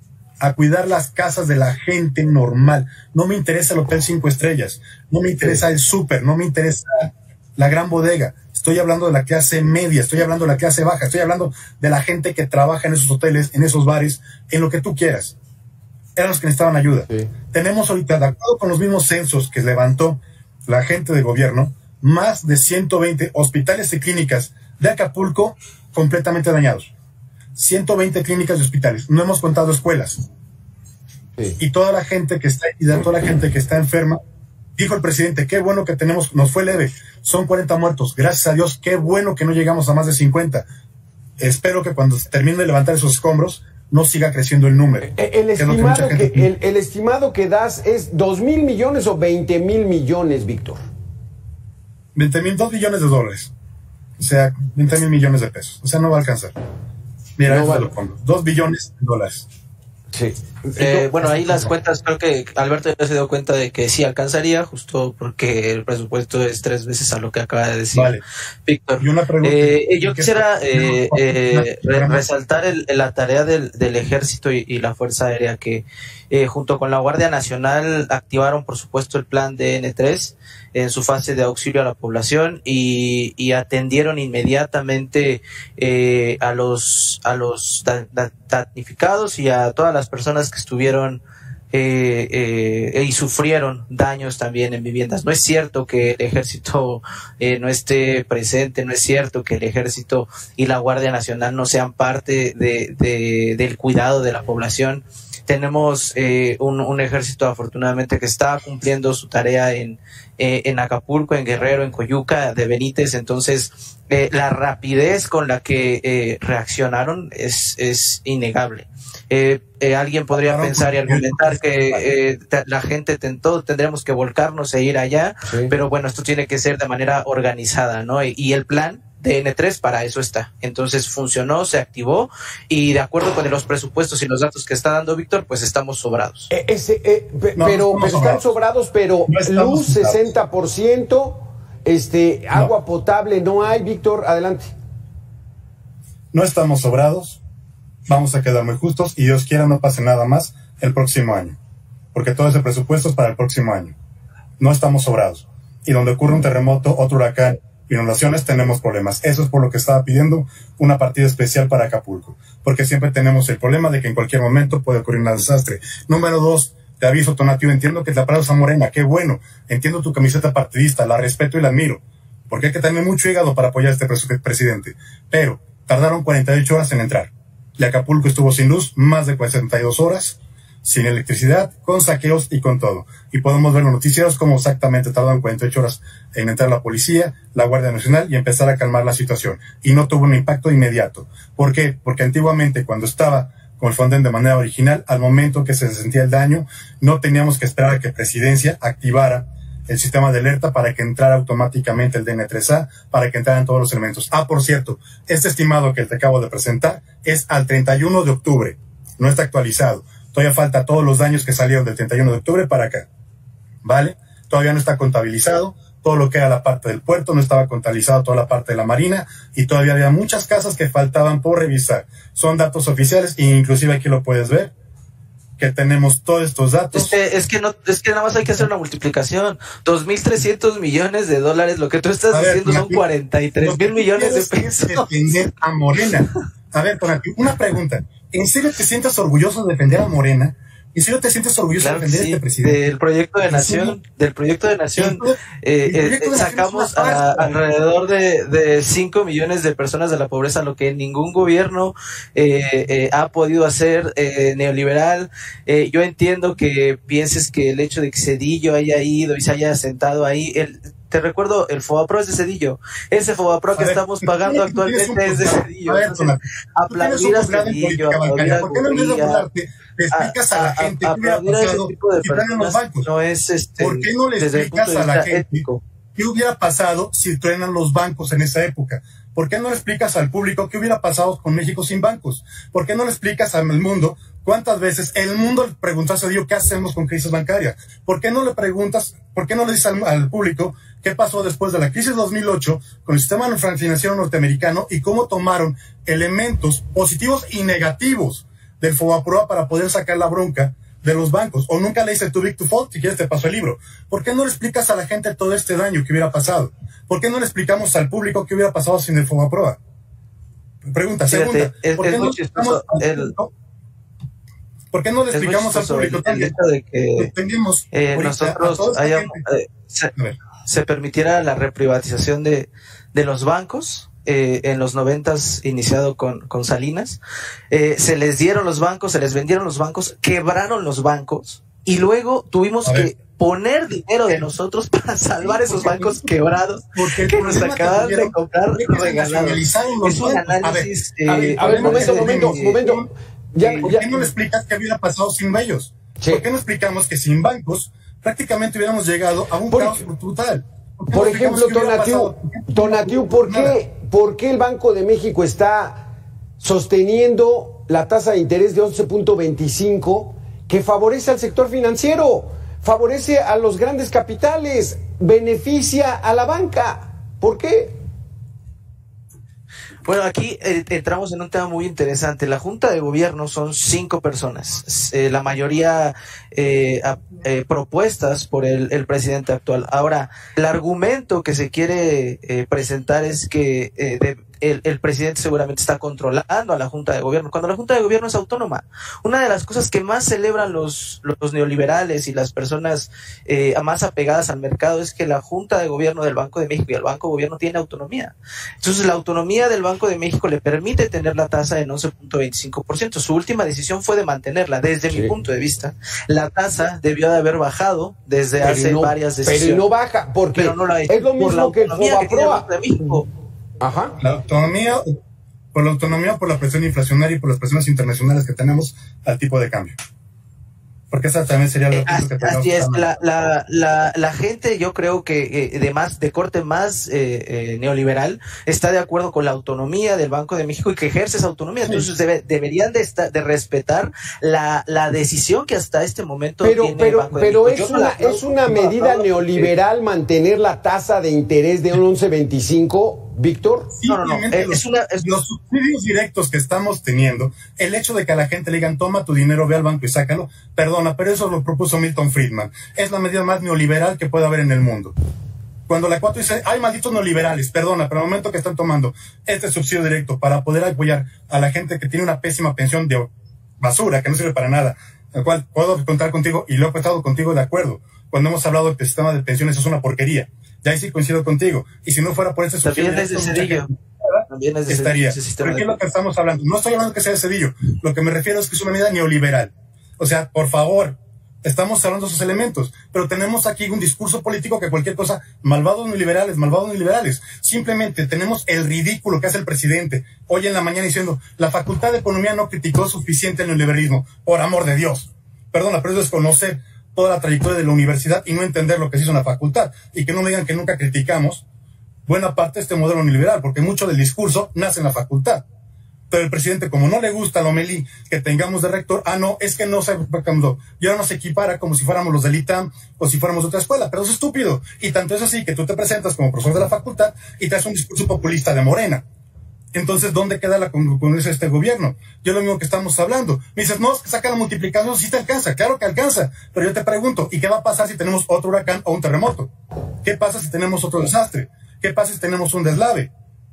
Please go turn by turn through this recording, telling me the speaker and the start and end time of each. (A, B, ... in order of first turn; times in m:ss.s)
0:00.4-0:15.3 A
0:16.2-0:26.9 A
0:27.6-0:30.2 A
0:31.6-0:34.2 A
0:34.8-0:40.6 A
0:41.4-0:46.5 A
0:45.0-0:50.8 B
0:52.1-0:53.5 A
0:54.2-0:56.5 A
0:57.4-0:59.5 A
0:57.5-0:57.9 B
1:00.1-1:01.0 B
1:00.8-2:16.5 C
1:01.4-1:01.7 A
1:07.9-1:08.2 A
1:09.0-1:12.2 A
2:00.4-2:02.0 A
2:05.4-2:05.7 B
2:16.5-2:24.7 B
2:17.6-2:18.5 A
2:19.3-2:20.2 A
2:26.3-2:27.4 A
2:28.1-2:31.6 A
2:32.1-2:33.9 A
2:34.6-3:33.1 A
3:33.8-3:44.7 A
3:45.6-3:47.1 A
3:46.9-3:55.0 C
3:52.3-3:53.0 A
3:53.6-4:02.8 A
4:01.8-4:29.4 C
4:03.4-4:04.0 A
4:05.0-4:07.6 A
4:23.8-4:33.1 A
4:30.1-4:35.8 C
4:33.8-5:09.8 A
5:10.9-5:13.5 A
5:11.3-5:13.3 C
5:14.9-5:16.5 A
5:15.3-5:17.3 C
5:17.2-5:19.4 A
5:17.9-5:20.1 C
5:20.6-5:27.2 C
5:27.7-5:42.8 C
5:32.8-5:33.1 A
5:35.4-5:36.4 A
5:36.9-5:43.0 A
5:41.3-5:44.2 B
5:43.6-5:43.9 C
5:43.8-5:53.8 A
5:46.2-5:46.4 B
5:49.7-5:50.0 B
5:51.1-5:56.1 B
5:56.6-6:08.0 B
6:10.0-6:49.8 C
6:48.6-6:52.7 B
6:50.5-6:53.3 C
6:53.8-6:54.2 B
6:54.2-6:55.2 A
6:55.7-7:00.0 A
7:01.1-7:03.1 A
7:01.9-7:19.7 C
7:16.6-7:23.9 B
7:23.9-7:35.1 A
7:24.1-7:25.2 C
7:35.9-8:21.6 A
7:52.8-7:53.9 C
7:54.5-7:55.9 C
8:22.2-8:25.6 A
8:26.3-8:39.2 A
8:39.9-8:49.7 A
8:50.2-8:53.3 A